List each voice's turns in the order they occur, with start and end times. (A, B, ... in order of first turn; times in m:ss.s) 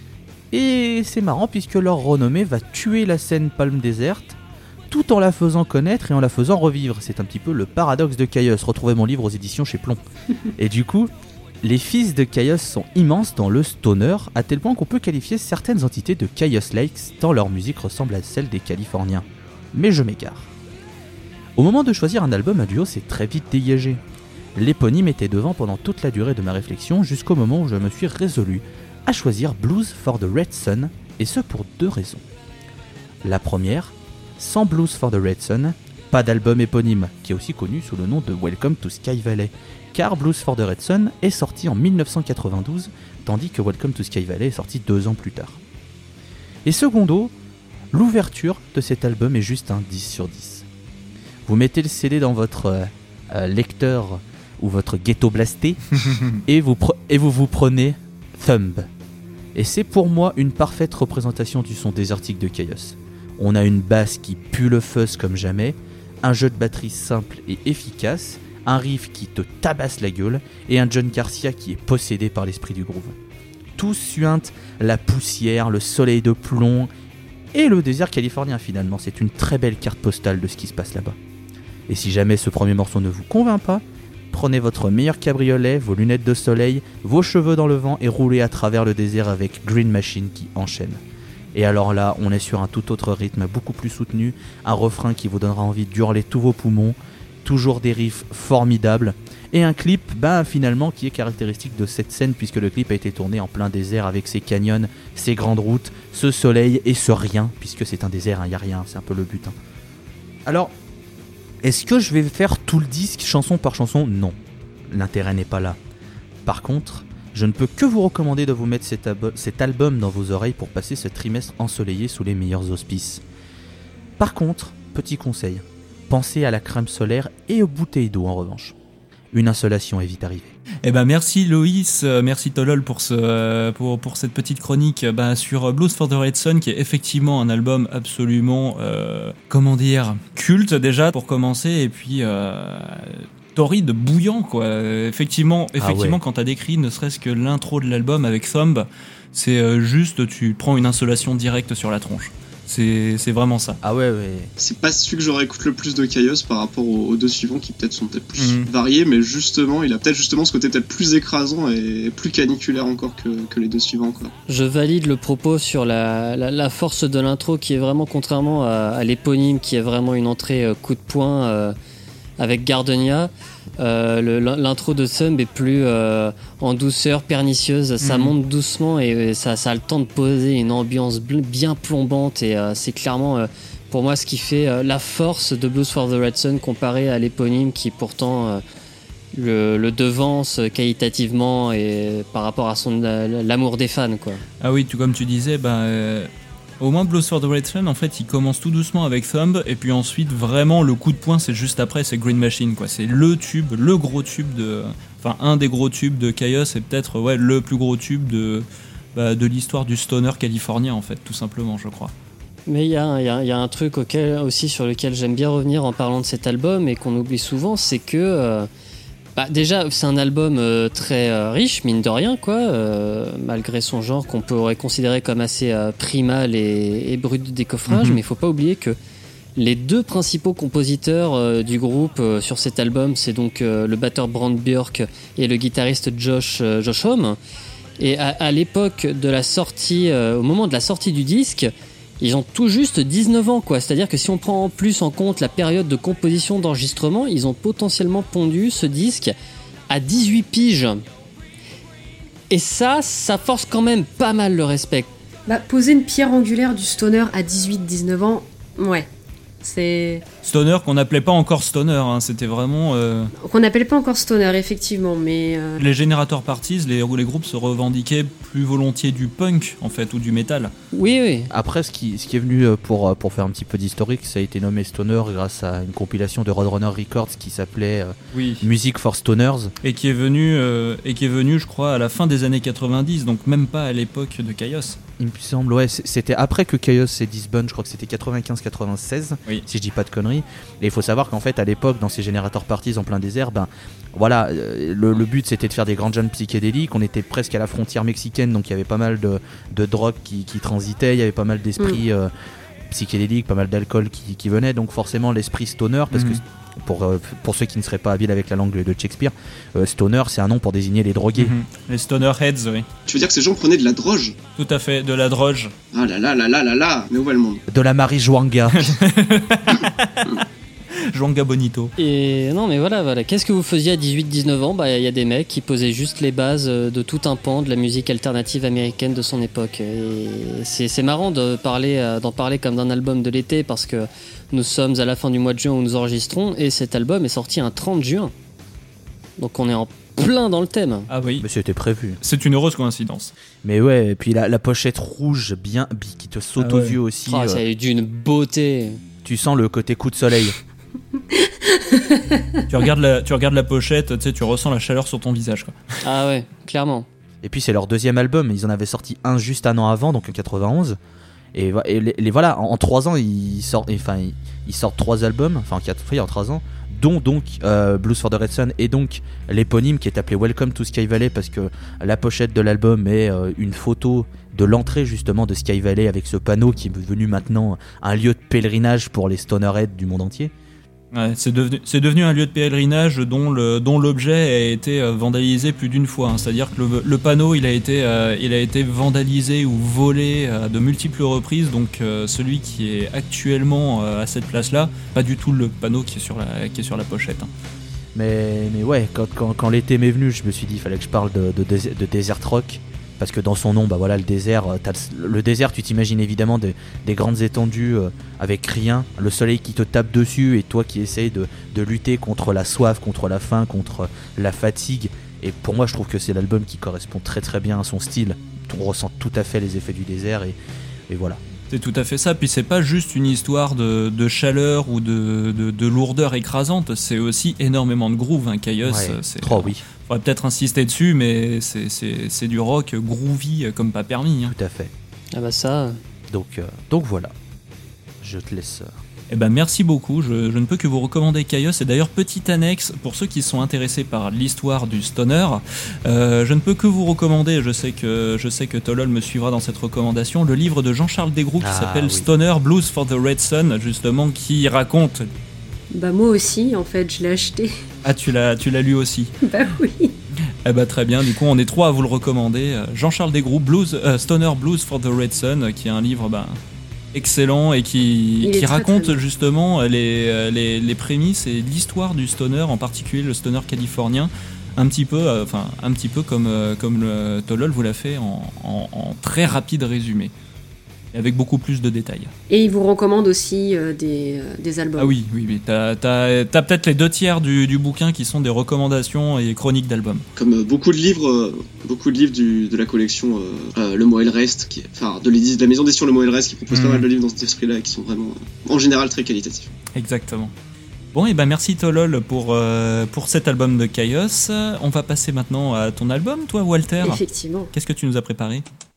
0:00.5-0:04.4 A
0:04.9-0:10.0 A
0:10.6-0:11.1 A
0:11.6-0:20.5 A
0:21.6-0:24.0 A
0:24.6-0:32.2 A
0:33.2-0:45.6 A
0:46.6-0:47.3 A
0:47.9-0:50.7 A
0:51.5-0:58.9 A
0:59.6-1:13.2 A
1:13.8-1:16.9 A
1:17.5-1:21.2 A
1:21.9-1:31.0 A
1:31.5-1:49.6 A
1:50.5-1:50.7 A
1:51.6-1:54.4 A
1:54.9-1:55.8 A
1:56.4-2:03.2 A
2:04.2-2:08.8 A
2:09.3-2:10.5 A
2:10.8-2:33.8 B
2:25.8-2:26.2 A
2:33.8-2:34.5 A
2:34.6-2:44.3 C
2:38.4-2:38.7 B
2:44.5-2:51.8 D
2:52.4-3:08.6 D
2:58.0-2:58.3 B
3:09.3-3:14.4 D
3:14.6-3:32.1 B
3:32.7-3:38.7 D
3:39.4-3:49.0 D
3:47.9-3:48.2 B
3:49.6-3:57.4 D
3:58.0-4:09.4 D
4:09.9-4:11.0 D
4:12.5-4:15.1 D
4:15.5-4:19.1 E
4:19.6-4:20.2 E
4:20.4-4:23.3 B
4:23.4-4:25.8 E
4:25.8-4:30.7 B
4:30.9-4:31.5 D
4:31.5-4:39.7 A
4:38.3-4:38.7 B
4:39.8-4:45.0 B
4:45.2-5:02.3 A
5:02.9-5:11.6 A
5:06.1-5:06.4 B
5:11.4-5:12.9 B
5:13.1-5:14.4 C
5:14.6-5:15.7 B
5:15.9-5:17.6 C
5:17.7-5:18.9 A
5:18.7-5:20.4 B
5:21.0-5:21.9 B
5:22.0-5:38.3 D
5:39.4-5:41.1 D
5:41.1-5:41.5 B
5:41.4-5:42.2 A
5:42.2-5:43.3 B
5:43.6-5:47.6 A
5:46.6-5:47.0 B
5:47.3-5:49.0 D
5:49.2-5:50.6 A
5:51.8-5:52.4 E
5:52.7-5:55.9 B
5:56.0-5:57.1 D
5:57.4-6:01.0 A
6:01.5-6:20.5 A
6:21.1-6:37.5 B
6:38.2-7:00.6 A
7:01.1-7:01.4 A
7:01.7-7:14.5 B
7:08.8-7:09.8 A
7:14.5-7:14.9 A
7:15.3-7:16.0 D
7:16.3-7:17.3 A
7:18.2-7:19.0 A
7:19.3-7:35.3 B
7:31.6-7:32.3 A
7:35.9-7:37.7 E
7:38.0-7:39.3 B
7:39.4-7:40.2 E
7:40.6-7:46.6 B
7:47.1-8:00.3 B
7:48.4-7:49.2 E
8:01.1-8:02.3 B
8:02.5-8:05.2 E
8:05.0-8:10.2 B
8:10.4-8:19.7 C
8:16.7-8:17.1 B
8:19.9-8:20.5 B
8:21.1-8:27.2 B
8:27.0-8:27.7 E
8:27.7-8:28.6 B